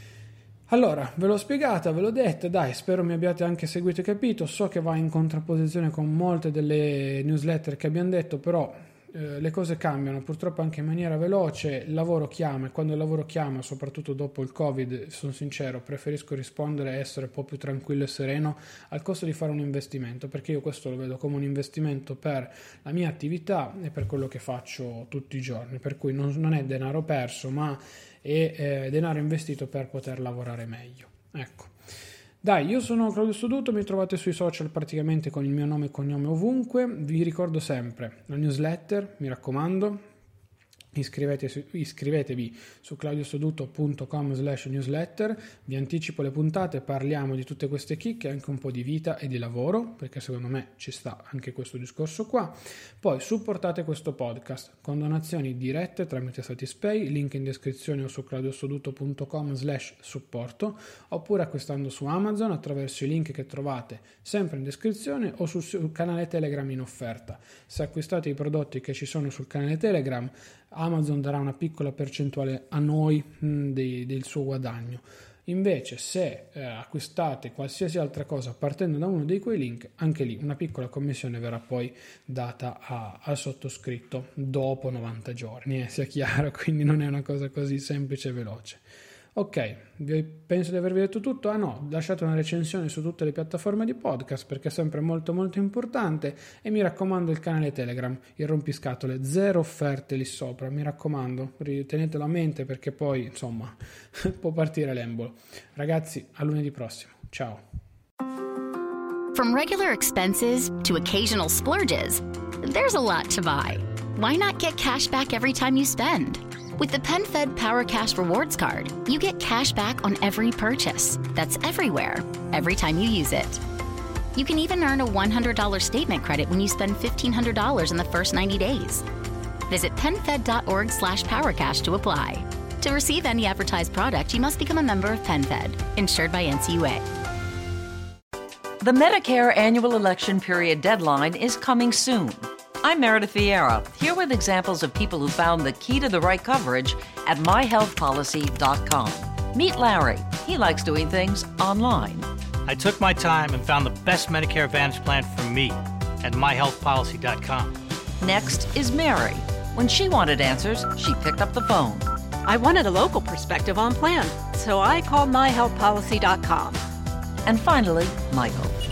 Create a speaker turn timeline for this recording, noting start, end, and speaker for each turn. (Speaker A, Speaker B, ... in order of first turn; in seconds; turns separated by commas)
Speaker A: 0.7-31.7, Speaker A: 32.4-40.0, Speaker A: 40.9-88.8, Speaker A: 89.3-107.6, Speaker B: 109.3-123.6, Speaker B: 124.3-129.1, Speaker B: 129.7-137.1, Speaker C: 138.8-152.3, Speaker D: 152.7-157.8, Speaker C: 158.2-162.1, Speaker E: 162.4-166.8, Speaker C: 167.4-168.8